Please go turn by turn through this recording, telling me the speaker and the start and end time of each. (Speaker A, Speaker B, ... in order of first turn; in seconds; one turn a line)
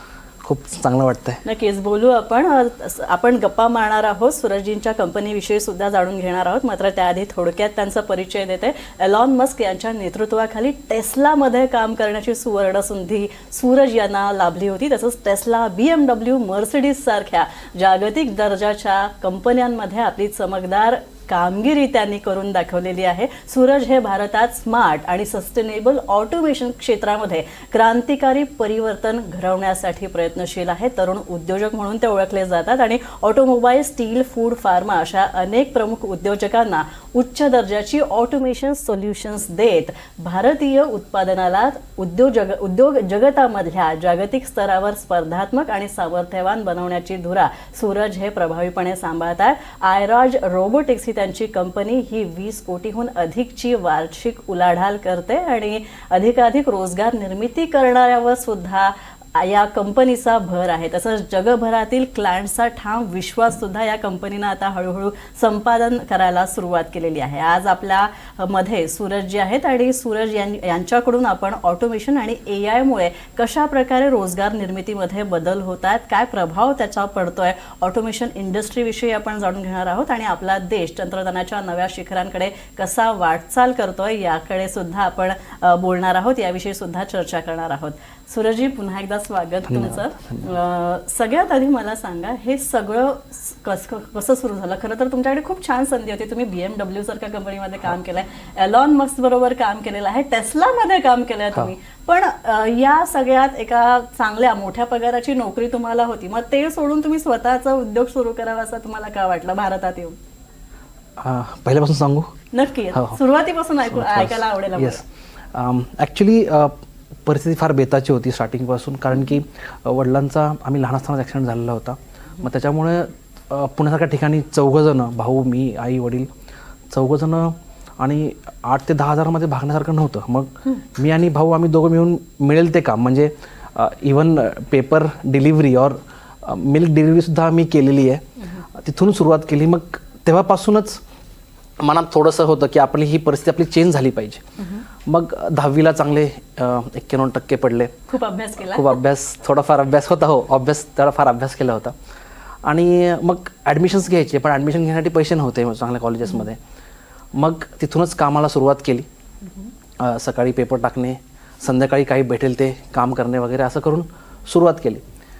Speaker A: 0.4-1.4
Speaker B: 1.4-110.2
Speaker A: 89.7-90.5
Speaker A: 111.2-112.3
Speaker B: 112.5-115.0
Speaker A: 112.9-113.2
Speaker A: 113.9-115.0
Speaker A: 115.5-126.3
Speaker A: 126.9-141.0
Speaker A: 141.8-144.4
Speaker A: 145.1-148.0
Speaker B: 148.1-149.0
Speaker A: 148.6-152.0
Speaker A: 152.6-156.6
Speaker A: 157.3-159.1
Speaker A: 160.0-165.0